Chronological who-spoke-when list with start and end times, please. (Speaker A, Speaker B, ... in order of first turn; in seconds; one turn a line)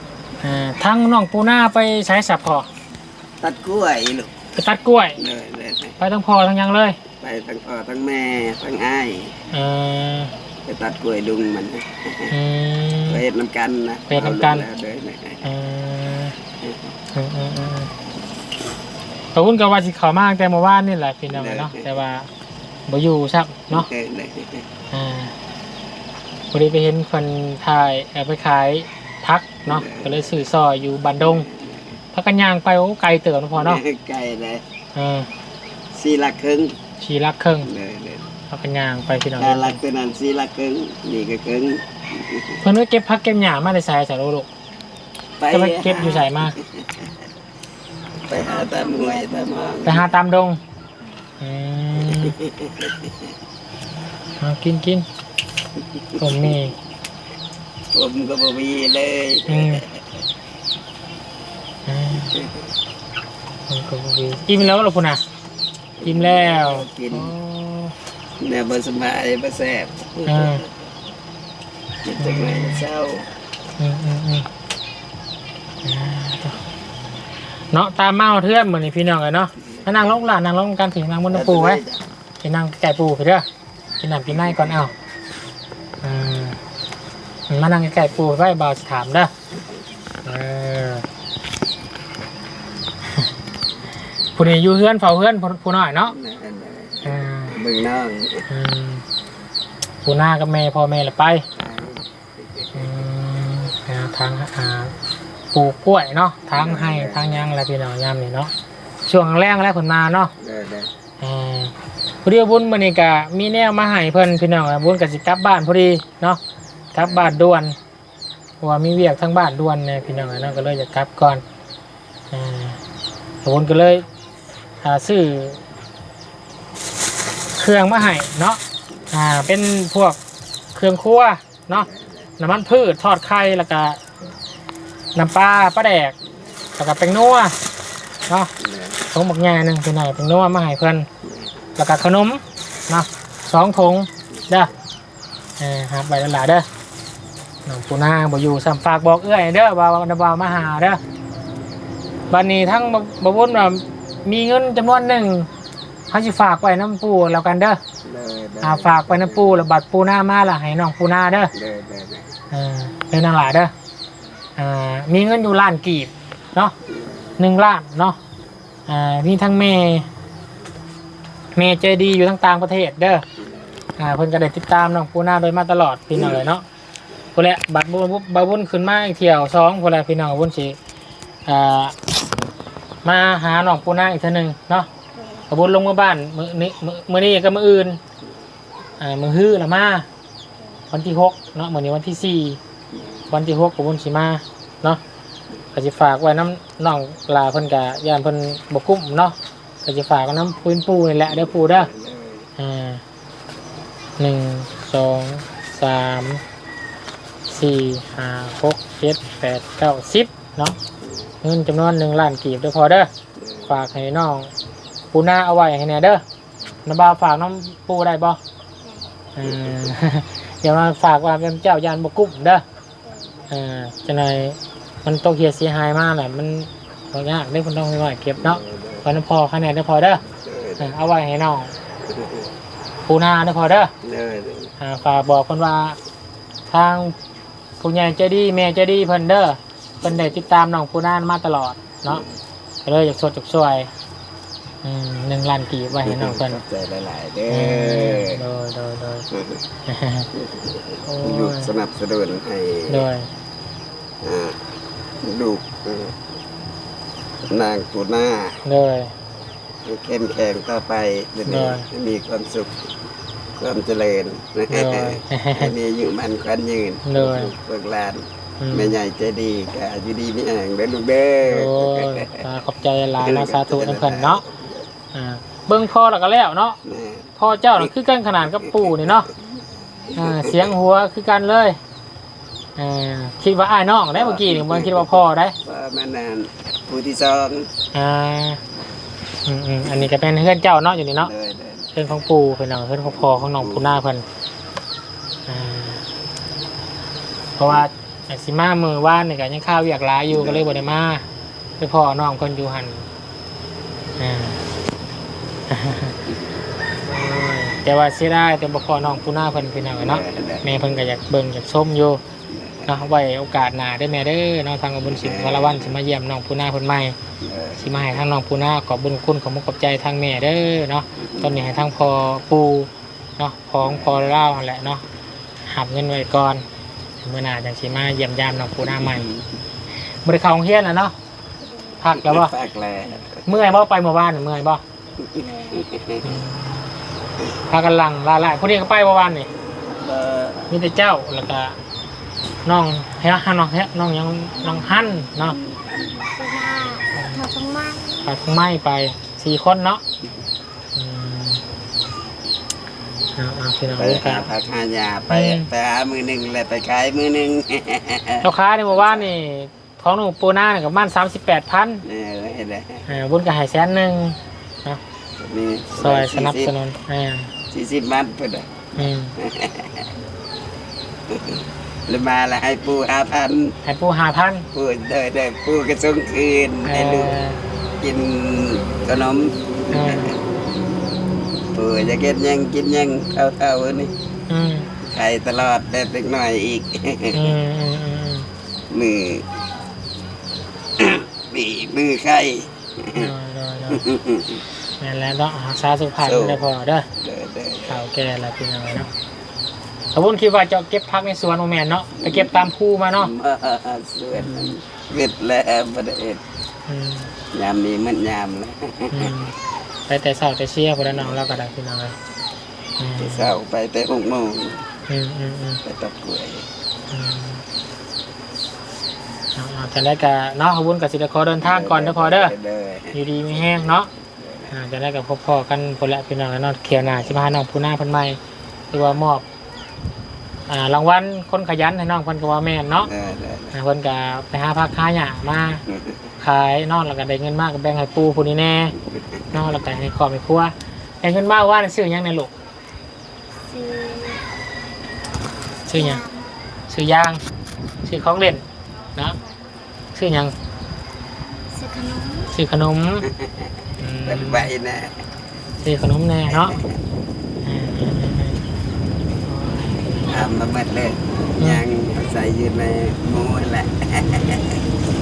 Speaker A: 0.4-2.7
Speaker B: 3.4-4.3
Speaker A: 4.5-5.2
Speaker B: 5.2-6.0
Speaker A: 6.0-7.0
Speaker B: 7.2-9.3
Speaker A: 9.5-10.3
Speaker B: 10.7-12.3
Speaker A: 12.3-13.2
Speaker B: 13.1-15.5
Speaker A: 14.1-14.7
Speaker A: 15.4-16.4
Speaker B: 16.6-16.9
Speaker A: 17.1-17.9
Speaker A: 19.3-22.3
Speaker B: 21.3-21.9
Speaker A: 22.9-23.9
Speaker B: 23.7-24.7
Speaker A: 24.9-25.3
Speaker A: 26.5-31.5
Speaker B: 29.7-30.4
Speaker B: 31.2-32.0
Speaker A: 32.1-33.8
Speaker B: 33.5-34.6
Speaker A: 35.0-35.3
Speaker B: 35.9-36.8
Speaker A: 37.0-37.7
Speaker B: 37.7-38.3
Speaker A: 38.5-39.8
Speaker B: 39.4-42.6
Speaker A: 42.6-44.5
Speaker B: 45.4-47.1
Speaker A: 45.5-46.5
Speaker B: 48.3-50.1
Speaker A: 49.8-50.6
Speaker A: 51.4-52.4
Speaker B: 52.1-53.1
Speaker A: 54.4-55.0
Speaker A: 56.2-56.8
Speaker B: 57.9-59.8
Speaker A: 59.5-59.8
Speaker A: 61.9-62.3
Speaker A: 63.7-65.2
Speaker B: 66.0-67.3
Speaker A: 66.0-67.9
Speaker B: 68.4-70.6
Speaker A: 70.3-70.7
Speaker B: 72.0-73.3
Speaker A: 72.2-72.9
Speaker A: 73.8-74.5
Speaker A: 75.8-76.6
Speaker A: 77.7-81.8
Speaker B: 81.3-82.0
Speaker A: 82.4-83.5
Speaker A: 84.0-84.9
Speaker B: 84.3-84.9
Speaker A: 86.0-86.6
Speaker A: 87.5-89.3
Speaker A: 90.2-91.0
Speaker A: 94.4-96.2
Speaker B: 96.1-98.5
Speaker A: 97.0-97.6
Speaker A: 98.5-99.0
Speaker A: 100.0-101.4
Speaker B: 101.5-103.1
Speaker A: 102.7-104.9
Speaker A: 105.5-108.5
Speaker B: 106.5-107.5
Speaker A: 109.1-110.3
Speaker B: 110.4-110.9
Speaker A: 111.2-116.4
Speaker A: 116.9-117.7
Speaker B: 117.0-117.4
Speaker A: 118.6-121.4
Speaker B: 120.3-120.8
Speaker A: 122.3-122.8
Speaker A: 123.4-124.0
Speaker A: 124.8-125.6
Speaker A: 127.6-128.6
Speaker A: 129.1-130.2
Speaker A: 130.8-131.9
Speaker B: 131.7-132.3
Speaker A: 132.4-134.0
Speaker A: 135.2-136.2
Speaker A: 136.8-137.5
Speaker B: 138.6-139.0
Speaker A: 139.1-141.1
Speaker A: 141.8-144.7
Speaker A: 145.6-146.7
Speaker A: 147.7-151.0
Speaker A: 152.3-155.5
Speaker A: 156.1-157.8
Speaker B: 158.0-159.6
Speaker A: 158.6-161.5
Speaker B: 161.5-162.3
Speaker A: 162.5-163.7
Speaker A: 164.6-166.7
Speaker B: 166.9-167.3
Speaker A: 167.4-168.2
Speaker A: 168.9-170.1
Speaker A: 171.6-173.2
Speaker B: 173.4-173.7
Speaker A: 174.0-176.6
Speaker A: 177.3-180.8
Speaker A: 181.5-181.9
Speaker A: 183.0-184.9
Speaker C: 185.2-185.4
Speaker A: 185.5-188.0
Speaker A: 189.0-190.1
Speaker A: 190.9-192.6
Speaker A: 193.3-195.0
Speaker A: 195.7-201.9
Speaker B: 201.3-202.5
Speaker A: 202.6-203.0
Speaker A: 204.2-206.4
Speaker A: 207.5-210.8
Speaker A: 211.4-213.1
Speaker B: 213.4-213.8
Speaker A: 213.7-214.5
Speaker A: 215.1-216.2
Speaker A: 216.8-218.4
Speaker C: 218.8-219.1
Speaker A: 219.4-222.6
Speaker B: 219.4-220.0
Speaker C: 223.0-223.3
Speaker A: 223.5-230.2
Speaker B: 228.4-229.1
Speaker B: 230.3-230.9
Speaker A: 230.8-231.7
Speaker B: 232.1-232.5
Speaker A: 233.1-233.9
Speaker B: 234.0-234.7
Speaker A: 234.8-236.0
Speaker A: 236.7-237.1
Speaker A: 237.8-242.2
Speaker B: 240.0-240.4
Speaker B: 242.1-242.3
Speaker A: 242.8-243.9
Speaker A: 244.8-246.6
Speaker B: 245.9-248.4
Speaker A: 247.5-249.3
Speaker B: 249.3-249.6
Speaker A: 249.9-250.3
Speaker B: 250.4-253.0
Speaker A: 251.1-251.7
Speaker A: 252.9-253.3
Speaker B: 254.2-254.6
Speaker B: 255.2-256.1
Speaker B: 257.4-258.6
Speaker A: 258.6-259.1
Speaker B: 259.9-262.8
Speaker A: 261.5-261.9
Speaker B: 263.6-272.4
Speaker A: 264.7-265.7
Speaker A: 267.1-267.5
Speaker A: 268.6-268.9
Speaker A: 271.4-274.4
Speaker B: 273.2-274.9
Speaker A: 275.1-276.8
Speaker B: 276.9-277.9
Speaker A: 277.4-279.3
Speaker B: 278.6-279.2
Speaker A: 280.1-281.8
Speaker B: 280.2-280.7
Speaker A: 282.8-285.6
Speaker B: 284.1-287.7
Speaker A: 287.9-288.6
Speaker A: 289.5-291.3
Speaker B: 291.2-291.9
Speaker A: 291.9-294.2
Speaker B: 293.1-294.0
Speaker A: 295.5-296.0
Speaker A: 297.6-301.2
Speaker B: 300.3-300.7
Speaker A: 301.8-303.1
Speaker A: 304.2-304.6
Speaker A: 305.7-306.1
Speaker A: 307.1-312.2
Speaker B: 310.0-311.1
Speaker B: 312.5-313.0
Speaker A: 312.9-317.2
Speaker B: 315.0-316.0
Speaker B: 317.4-318.2
Speaker A: 317.8-325.0
Speaker B: 321.2-321.7
Speaker B: 323.8-324.5
Speaker A: 325.7-326.6
Speaker A: 327.2-329.3
Speaker B: 328.8-329.5
Speaker A: 330.2-331.1
Speaker A: 332.0-332.5
Speaker B: 332.2-333.4
Speaker A: 333.5-334.8
Speaker B: 335.3-336.3
Speaker C: 335.4-335.9
Speaker A: 336.2-336.9
Speaker A: 337.7-339.5
Speaker B: 339.9-340.7
Speaker A: 340.7-341.8
Speaker A: 342.6-345.6
Speaker C: 345.6-348.2
Speaker A: 347.1-347.4
Speaker A: 348.2-350.0
Speaker A: 350.9-351.6
Speaker A: 353.4-354.5
Speaker B: 354.0-359.3
Speaker A: 355.3-355.7
Speaker A: 358.4-362.1
Speaker B: 362.1-363.1
Speaker A: 363.1-365.0
Speaker B: 365.4-366.7
Speaker A: 365.9-367.5
Speaker B: 367.7-368.7
Speaker A: 369.0-369.4
Speaker B: 369.4-370.1
Speaker B: 371.3-373.7
Speaker A: 373.9-374.7
Speaker B: 374.7-377.4
Speaker A: 376.9-377.6
Speaker B: 378.0-380.3
Speaker A: 379.9-380.3
Speaker B: 381.7-384.1
Speaker A: 384.5-384.9
Speaker B: 385.0-387.5
Speaker A: 387.3-388.5
Speaker B: 388.9-389.4
Speaker B: 391.0-393.3
Speaker A: 393.1-394.0
Speaker B: 393.9-394.6
Speaker A: 395.0-397.1
Speaker B: 396.2-398.0
Speaker A: 397.9-399.1
Speaker A: 400.1-403.3
Speaker B: 402.2-402.6
Speaker B: 403.2-406.4
Speaker A: 404.4-404.7
Speaker A: 406.9-407.3
Speaker B: 407.5-409.3
Speaker A: 409.1-409.5
Speaker A: 410.1-412.1
Speaker B: 411.0-411.6
Speaker A: 413.0-413.5
Speaker B: 413.2-414.8
Speaker A: 415.1-415.8
Speaker B: 415.8-416.6
Speaker A: 417.1-417.6
Speaker A: 419.5-422.5
Speaker B: 421.6-424.7
Speaker A: 423.1-424.1
Speaker A: 424.7-428.4
Speaker A: 428.9-429.4
Speaker A: 430.7-433.1
Speaker B: 433.0-433.7
Speaker A: 433.7-435.8
Speaker A: 436.4-438.9
Speaker A: 439.5-442.5
Speaker C: 443.7-444.4
Speaker A: 445.9-446.2
Speaker C: 445.9-446.4
Speaker A: 446.9-447.4
Speaker A: 448.0-448.6
Speaker A: 450.1-450.5
Speaker C: 451.7-452.5
Speaker A: 452.5-453.3
Speaker B: 453.4-453.7
Speaker A: 454.0-454.7
Speaker B: 454.3-455.1
Speaker A: 455.8-456.8
Speaker B: 456.5-457.0
Speaker A: 457.6-458.6
Speaker A: 459.4-460.3
Speaker B: 460.3-464.8